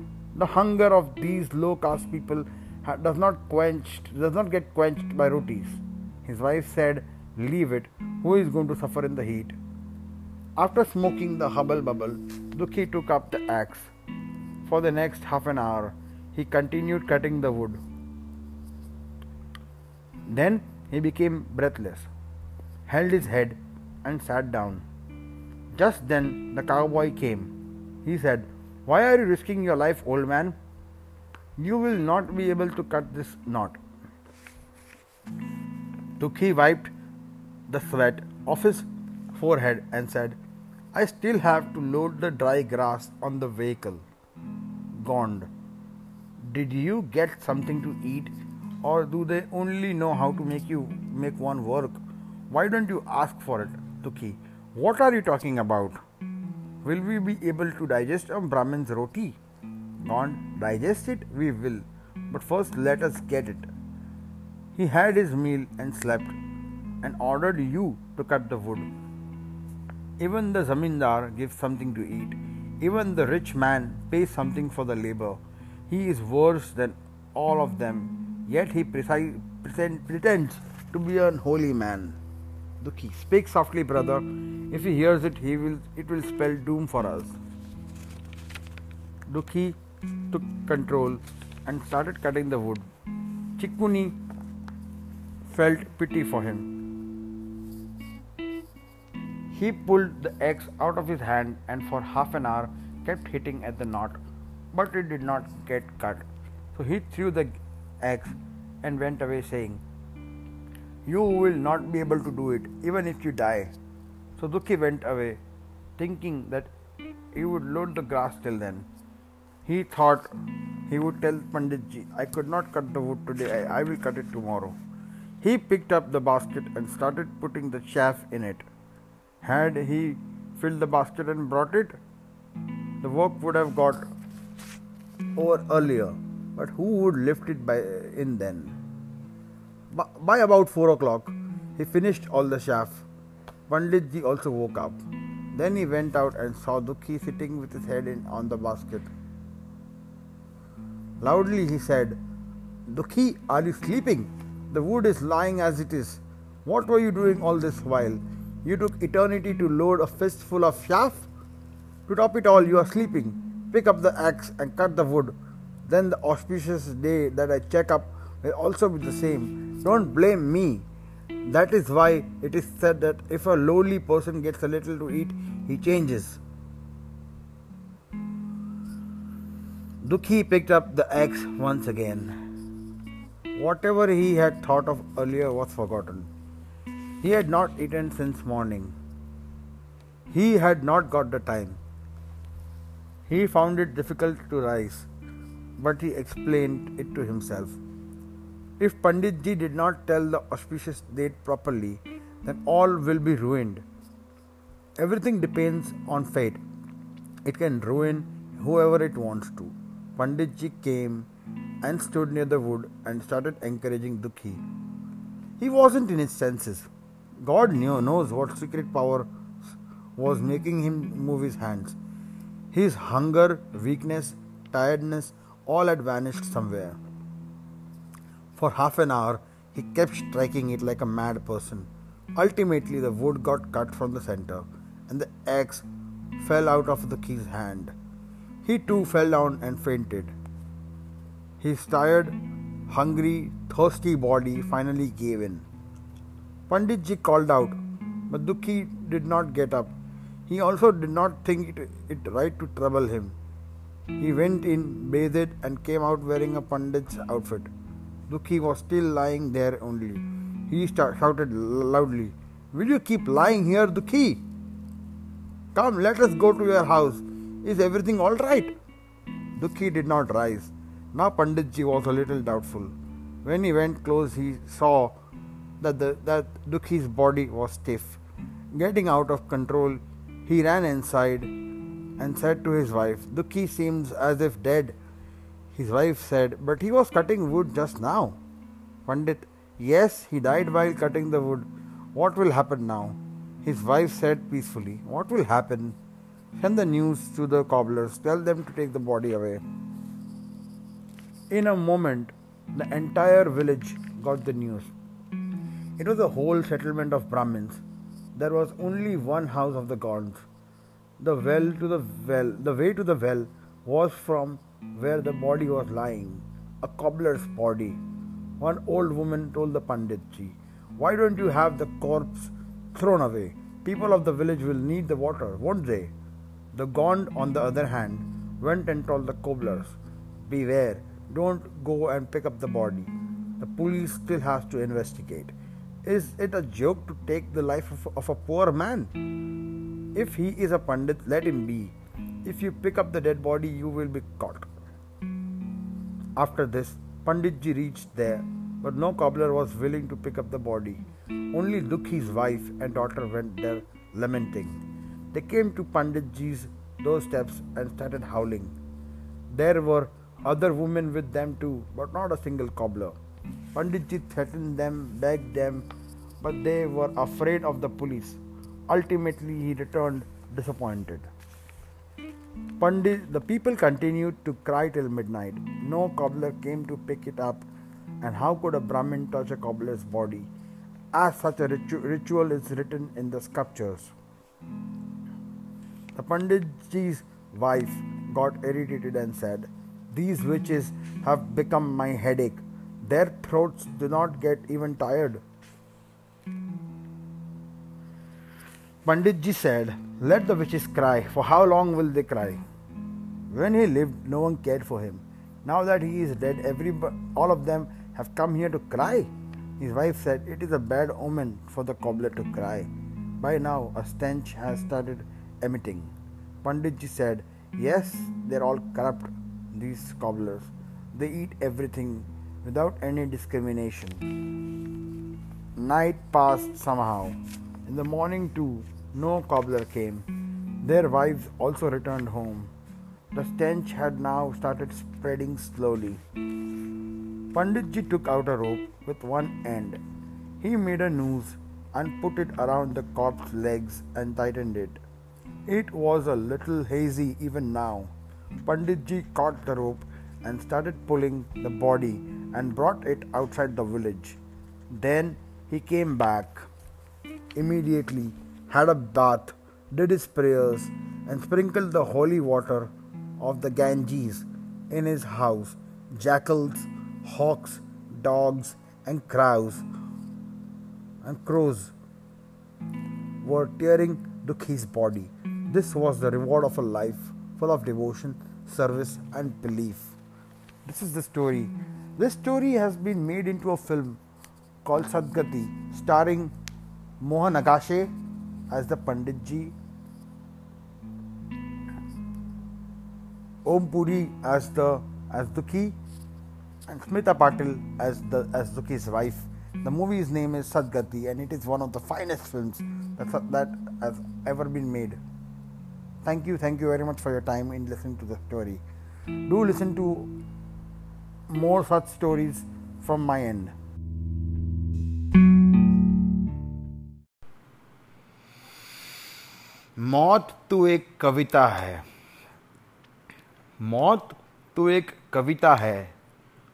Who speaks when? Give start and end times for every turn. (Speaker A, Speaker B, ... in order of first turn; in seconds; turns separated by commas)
Speaker A: 0.3-9.6, Speaker A: 10.6-13.9, Speaker A: 14.6-17.8, Speaker A: 20.3-22.1, Speaker A: 22.9-24.8, Speaker A: 25.8-30.6, Speaker A: 31.6-33.8, Speaker A: 36.2-36.9, Speaker A: 37.7-40.4, Speaker A: 40.9-44.0, Speaker A: 44.9-45.5, Speaker A: 46.4-56.0, Speaker A: 56.8-59.4, Speaker A: 60.0-63.7, Speaker A: 64.8-66.3, Speaker A: 67.0-68.9, Speaker A: 70.2-82.2, Speaker A: 82.8-87.4, Speaker A: 89.3-89.8, Speaker A: 90.3-92.8, Speaker A: 93.6-94.2, Speaker A: 95.5-96.7, Speaker A: 99.5-104.2, Speaker A: 104.7-109.8, Speaker A: 111.0-113.7, Speaker A: 114.4-115.4, Speaker A: 116.0-116.7, Speaker A: 117.3-118.9, Speaker A: 119.6-120.3, Speaker A: 120.9-124.8, Speaker A: 125.4-128.7, Speaker A: 129.4-132.0, Speaker A: 133.0-134.1, Speaker A: 135.3-138.8, Speaker A: 139.9-143.1, Speaker A: 143.7-145.0, Speaker A: 145.5-149.1, Speaker A: 151.2-152.2, Speaker A: 152.9-161.3, Speaker A: 162.1-165.3, Speaker A: 165.8-170.9, Speaker A: 171.4-176.4, Speaker A: 180.0-182.3, Speaker A: 183.5-186.3, Speaker A: 187.2-188.9, Speaker A: 190.3-191.8, Speaker A: 193.3-195.1, Speaker A: 195.8-197.8, Speaker A: 198.8-203.8, Speaker A: 205.0-206.6, Speaker A: 207.4-211.3, Speaker A: 211.8-214.6, Speaker A: 215.6-216.9, Speaker A: 217.4-219.3, Speaker A: 220.2-222.0, Speaker A: 222.7-227.0, Speaker A: 228.5-235.8, Speaker A: 236.4-237.9, Speaker A: 238.6-240.3, Speaker A: 241.6-242.3, Speaker A: 242.9-245.7, Speaker A: 246.7-249.9, Speaker A: 250.5-253.3, Speaker A: 254.2-257.7, Speaker A: 258.3-264.4, Speaker A: 265.7-268.7, Speaker A: 269.6-275.1, Speaker A: 275.8-278.2, Speaker A: 278.7-281.5, Speaker A: 282.2-284.9, Speaker A: 285.7-288.4, Speaker A: 289.1-296.0, Speaker A: 296.6-299.6, Speaker A: 301.5-304.9, Speaker A: 306.0-307.8, Speaker A: 308.4-310.4, Speaker A: 311.2-318.0, Speaker A: 318.6-326.1, Speaker A: 326.7-339.1, Speaker A: 340.1-344.7, Speaker A: 346.4-354.8, Speaker A: 355.3-358.7, Speaker A: 359.5-363.2, Speaker A: 363.7-365.9, Speaker A: 366.4-371.3, Speaker A: 372.8-377.6, Speaker A: 378.2-380.5, Speaker A: 381.1-384.1, Speaker A: 386.1-395.4, Speaker A: 399.0-402.6, Speaker A: 403.5-416.1, Speaker A: 416.6-424.2, Speaker A: 425.8-430.3, Speaker A: 430.8-432.7, Speaker A: 433.3-436.2, Speaker A: 437.5-440.0, Speaker A: 440.6-445.0, Speaker A: 445.7-448.1, Speaker A: 448.6-454.4, Speaker A: 454.9-456.7, Speaker A: 457.5-469.8, Speaker A: 471.2-471.9, Speaker A: 473.4-480.1, Speaker A: 480.8-484.2, Speaker A: 484.8-486.5, Speaker A: 487.2-488.1, Speaker A: 488.7-489.7, Speaker A: 493.6-496.0, Speaker A: 496.9-505.2, Speaker A: 506.2-508.8, Speaker A: 509.5-510.3, Speaker A: 511.5-513.7, Speaker A: 520.0-522.0, Speaker A: 523.8-526.1